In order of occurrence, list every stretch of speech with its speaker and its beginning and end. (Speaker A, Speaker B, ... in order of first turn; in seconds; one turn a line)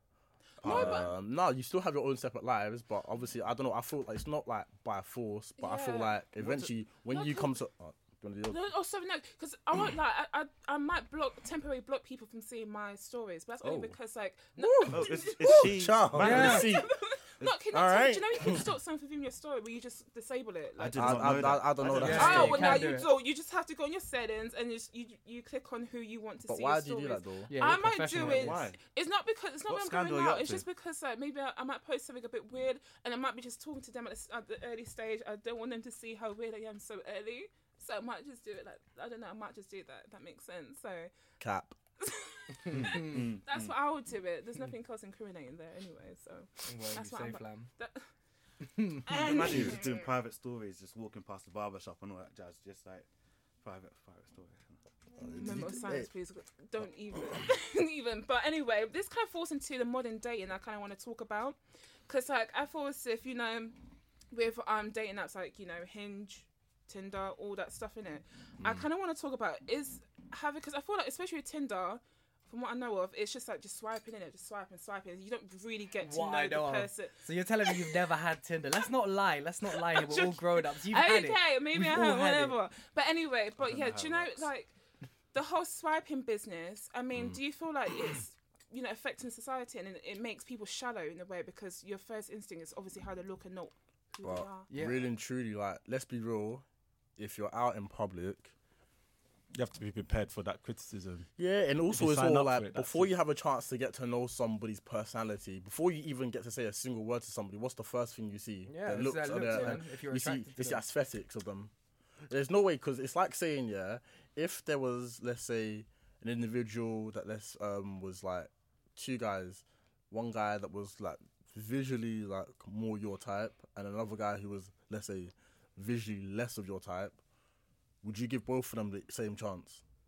Speaker A: 0.6-1.1
Speaker B: 0.6-1.1
Speaker C: 0.6-8.6
Speaker A: 5.6-6.2
Speaker B: 6.4-6.7
Speaker A: 7.1-7.6
Speaker A: 8.5-41.1
Speaker C: 13.6-13.9
Speaker C: 14.6-16.9
Speaker B: 14.8-16.9
Speaker D: 16.2-16.7
Speaker C: 17.7-18.7
Speaker B: 20.8-22.8
Speaker C: 20.9-22.9
Speaker D: 21.9-23.1
Speaker C: 26.5-27.5
Speaker D: 27.5-28.6
Speaker B: 28.1-28.8
Speaker B: 29.7-30.6
Speaker C: 41.4-41.8
Speaker A: 42.0-48.1
Speaker D: 42.7-43.2
Speaker B: 42.7-43.7
Speaker D: 46.7-47.7
Speaker D: 48.6-49.1
Speaker A: 49.0-50.1
Speaker B: 49.1-53.1
Speaker B: 53.6-54.8
Speaker C: 55.2-56.1
Speaker A: 55.2-63.8
Speaker A: 64.3-77.8
Speaker D: 76.0-82.6
Speaker A: 79.8-84.7
Speaker B: 83.6-84.5
Speaker A: 85.3-94.7
Speaker C: 94.2-96.6
Speaker D: 94.7-95.1
Speaker C: 97.2-98.5
Speaker E: 99.5-101.3
Speaker C: 101.4-111.7
Speaker E: 101.9-103.1
Speaker D: 108.7-110.8
Speaker C: 112.3-127.2
Speaker C: 128.0-129.8